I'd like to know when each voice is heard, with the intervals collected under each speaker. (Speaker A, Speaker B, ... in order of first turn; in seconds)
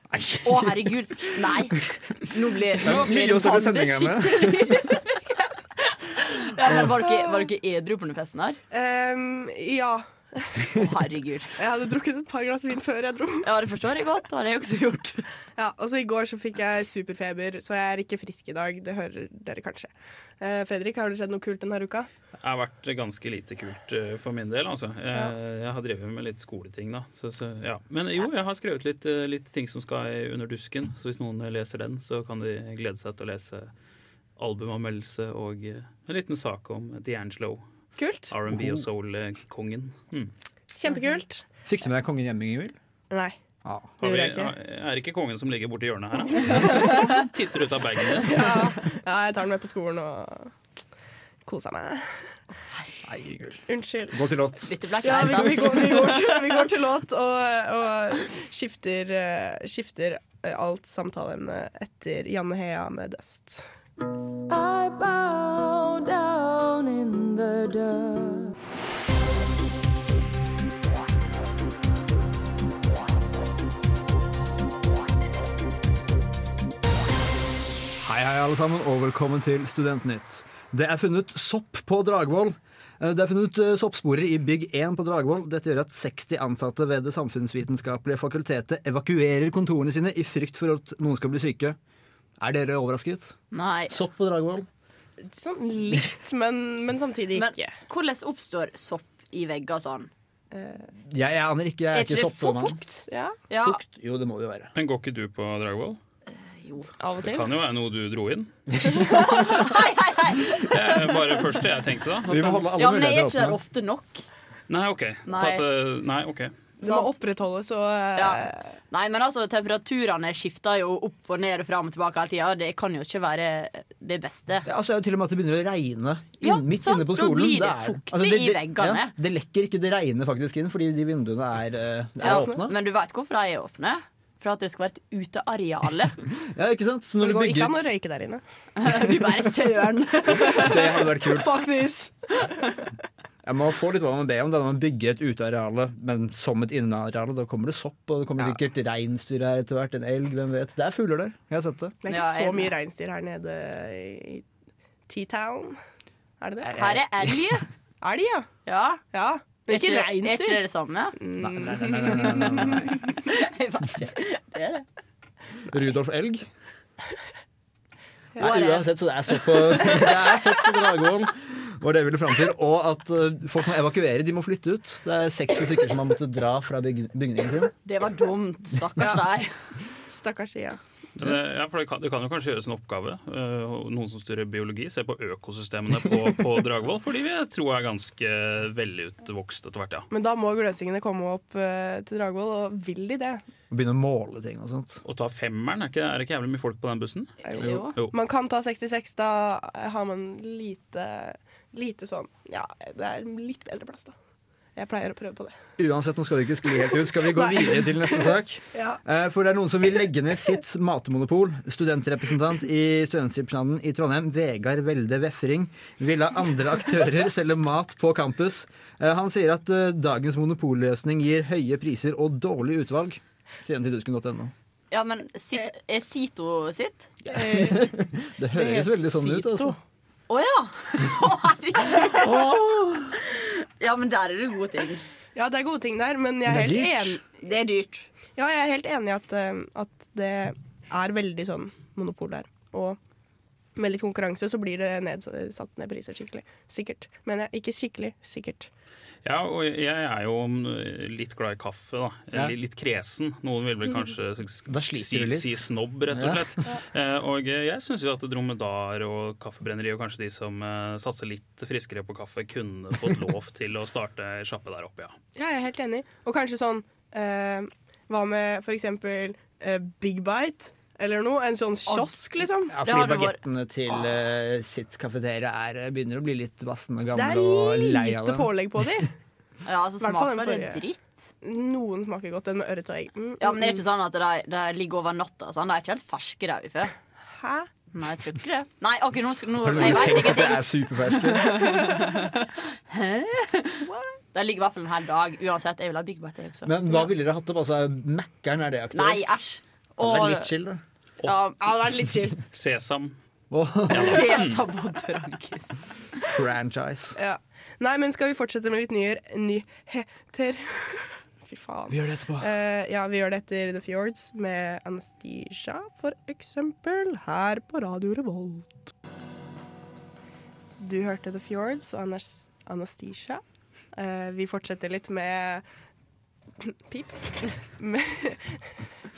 Speaker A: 0.1-1.6, 2.7-4.8, 38.5-38.8, 41.6-42.8, 43.6-44.4, 53.1-55.9, 78.0-91.8, 92.4-93.4, 93.9-94.7, 101.1-102.8, 103.5-104.7, 112.2-113.6, 124.7-132.7, 136.4-137.9, 138.9-139.4, 140.4-141.6, 143.4-152.0, 161.4-162.9, 165.7-166.5, 168.4-177.7, 193.7-195.0, 205.8-224.5, 227.3-229.8, 232.1-233.2, 236.5-237.2, 254.7-256.5, 272.7-278.8, 289.6-292.0, 296.7-299.4, 300.0-300.8, 303.5-304.3, 306.2-307.2, 311.9-312.5
Speaker B: 0.4-5.1, 6.2-8.6, 10.8-11.6, 13.4-15.3, 54.7-56.4, 93.5-94.0, 97.3-100.1, 101.9-103.8, 106.3-106.9, 109.0-110.7, 112.8-114.2, 115.3-115.6, 116.8-117.1, 118.2-124.7, 126.4-129.1, 132.2-136.2, 138.8-141.7, 152.1-152.7, 156.7-157.7, 158.7-159.0, 159.7-161.2, 162.2-164.8, 168.4-168.9, 177.9-179.5, 197.6-197.9, 224.9-227.1, 230.3-232.5, 233.2-235.0, 237.3-238.1, 272.8-273.4, 279.6-281.3, 283.4-286.9, 287.9-297.0, 298.9-300.5, 301.2-301.6, 303.9-305.8
Speaker C: 8.7-10.8, 11.6-13.5, 15.6-22.1, 38.0-38.3, 40.7-41.4, 43.1-43.4, 44.0-44.4, 48.2-50.5, 51.5-52.1, 53.7-54.2, 55.0-63.7, 95.2-97.7, 100.5-100.9, 103.1-103.4, 107.0-107.5, 116.8-118.7, 132.2-132.5, 137.2-138.4, 141.4-142.1, 152.0-154.4, 155.1-155.8, 156.4-157.3, 158.0-158.5, 159.1-160.6, 161.2-162.9, 180.1-180.8, 190.1-193.4, 197.5-204.1, 204.8-205.6, 207.3-209.0, 227.3-227.9, 228.5-229.8, 235.4-237.2, 238.4-243.0, 243.8-248.7, 265.4-272.8, 277.1-279.1, 280.0-280.8, 281.4-283.8, 287.3-287.7, 301.6-302.4, 307.2-318.9, 320.8-323.4, 323.9-325.6, 326.6-328.6
Speaker D: 22.4-33.7, 34.4-37.6, 38.3-40.3, 44.0-48.5, 104.8-106.0, 107.2-108.5, 110.6-112.7, 114.7-116.5, 181.2-190.1, 195.1-197.3, 249.2-265.2, 302.5-303.2, 303.9-304.6